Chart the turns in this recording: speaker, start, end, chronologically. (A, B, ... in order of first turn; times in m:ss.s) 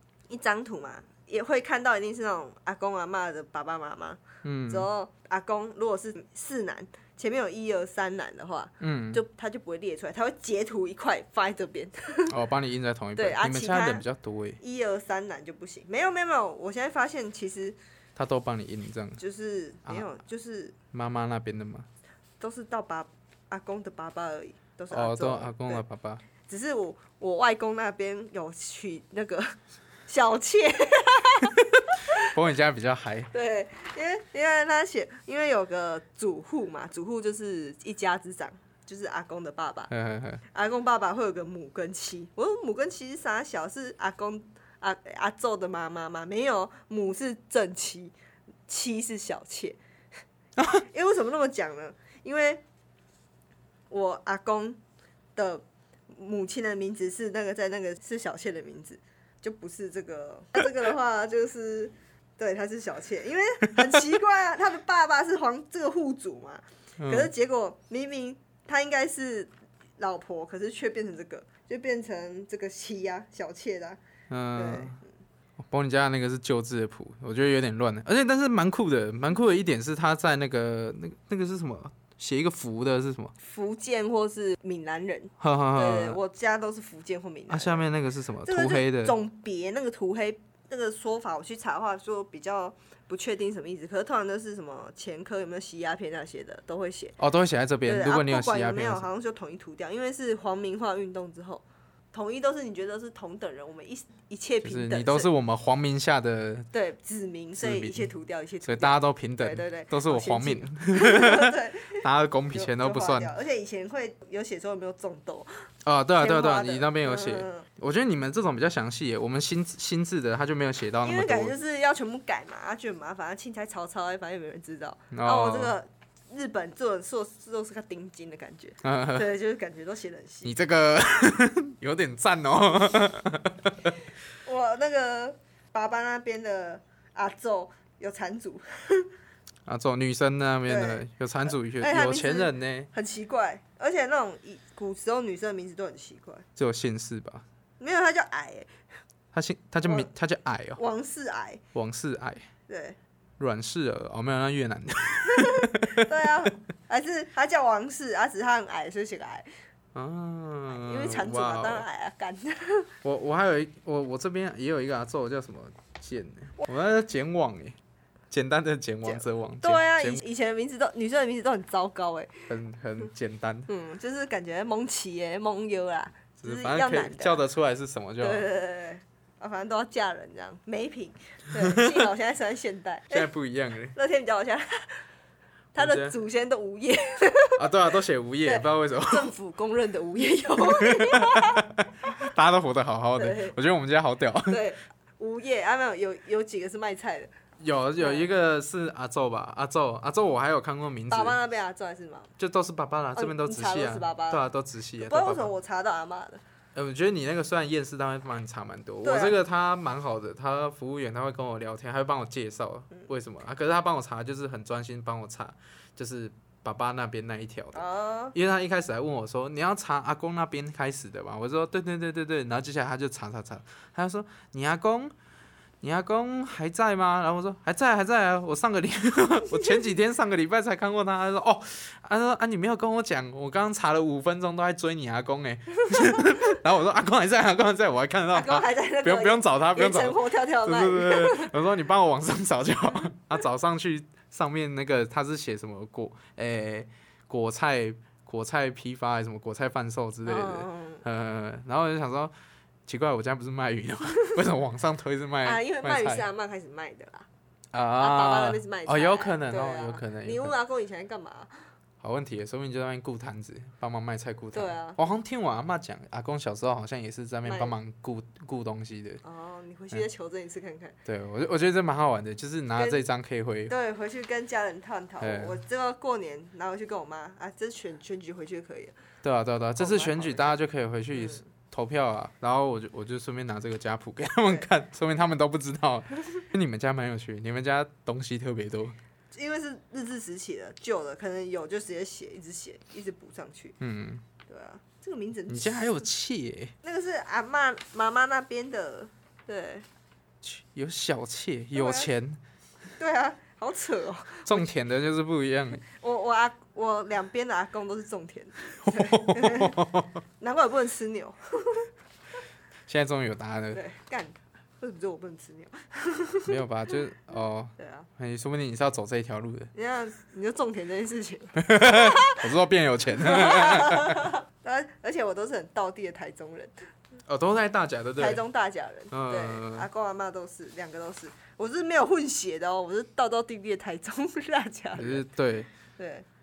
0:00.3-0:12.3 A
0:04.4-0:04.9 B
0:08.8-0:09.2 B
0:12.3-0:14.6 B
0:13.2-0:14.0 A
0:14.6-0:17.8 A
0:18.2-0:19.2 B
0:19.2-0:20.8 A
0:20.9-0:21.9 B
0:22.4-0:25.8 A
0:24.9-0:26.2 B
0:26.5-0:29.6 A
0:30.1-0:31.6 A
0:32.0-0:33.3 B
0:33.3-0:39.9 A
0:39.9-0:40.4 B
0:40.5-0:48.1 A
0:48.7-0:49.8 A
0:50.6-0:50.8 B
0:50.9-0:52.6 A
0:53.9-0:54.8 A
0:55.4-1:14.0 A
1:07.0-1:07.3 B
1:14.3-1:15.0 B
1:14.6-1:15.0 A
1:15.6-1:23.3 B
1:23.4-1:27.9 A
1:25.4-1:26.2 B
1:27.5-1:29.2 B
1:28.5-1:37.2 A
1:37.2-1:39.1 B
1:37.8-1:45.3 A
1:44.6-1:46.7 B
1:46.7-1:52.0 A
1:47.6-1:48.1 B
1:48.6-1:53.3 B
1:52.5-1:55.5 A
1:55.8-2:01.6 B
1:56.2-1:57.7 A
2:01.0-2:10.6 A
2:05.1-2:05.7 B
2:08.8-2:09.3 B
2:10.4-2:14.0 B
2:14.4-2:19.1 A
2:19.7-2:22.9 B
2:20.7-2:26.4 A
2:26.6-2:27.4 B
2:27.8-2:28.7 A
2:29.3-2:30.8 B
2:29.8-2:30.1 A
2:30.8-2:31.6 A
2:31.7-2:32.5 B
2:32.7-2:33.0 A
2:33.4-2:36.2 B
2:35.3-2:39.5 A
2:40.0-2:41.8 B
2:40.7-2:42.9 A
2:43.0-2:47.8 B
2:48.3-2:50.2 B
2:49.0-2:52.5 A
2:52.5-2:53.7 B
2:53.7-2:57.4 A
2:56.4-2:58.5 B
2:58.2-3:03.3 A
3:01.6-3:02.0 B
3:03.1-3:04.0 B
3:03.9-3:05.0 A
3:05.7-3:07.7 A
3:05.8-3:06.2 B
3:07.6-3:09.3 B
3:08.4-3:11.6 A
3:10.6-3:14.6 B
3:13.2-3:13.6 A
3:14.5-3:17.3 A
3:17.6-3:21.4 B
3:18.0-3:18.3 A
3:21.1-3:22.3 A
3:22.4-3:25.5 B
3:23.2-3:26.4 A
3:26.8-3:45.1 B
3:29.0-3:29.4 A
3:37.8-3:38.4 A
3:45.8-4:12.3 B
3:58.3-4:01.5 A
4:10.2-4:11.0 A
4:12.9-4:16.3 B
4:15.4-4:17.3 A
4:17.7-4:20.5 B
4:18.0-4:21.5 A
4:22.0-4:29.2 B
4:24.5-4:25.0 A
4:27.4-4:27.8 A
4:29.2-4:31.0 A
4:31.0-4:33.7 B
4:32.8-4:33.0 A
4:33.7-4:38.9 A
4:35.2-4:35.6 B
4:39.2-4:49.0 B
4:39.8-4:40.6 A
4:41.1-4:41.4 A
4:49.3-4:53.8 A
4:53.8-4:54.2 B
4:54.5-4:55.9 A
4:55.5-4:56.7 B
4:56.8-4:59.9 A
5:00.4-5:02.4 B
5:01.7-5:02.1 A
5:03.0-5:04.7 A
5:04.5-5:05.8 B
5:05.8-5:11.9 A
5:08.8-5:10.1 B
5:12.9-5:13.8 B
5:13.7-5:16.6 A
5:16.4-5:19.7 B
5:17.8-5:18.1 A
5:19.8-5:22.4 A
5:21.6-5:24.4 B
5:23.2-5:26.7 A
5:27.3-5:28.4 B
5:28.2-5:35.3 A
5:29.1-5:29.9 B
5:35.0-5:35.7 B
5:36.0-5:36.2 A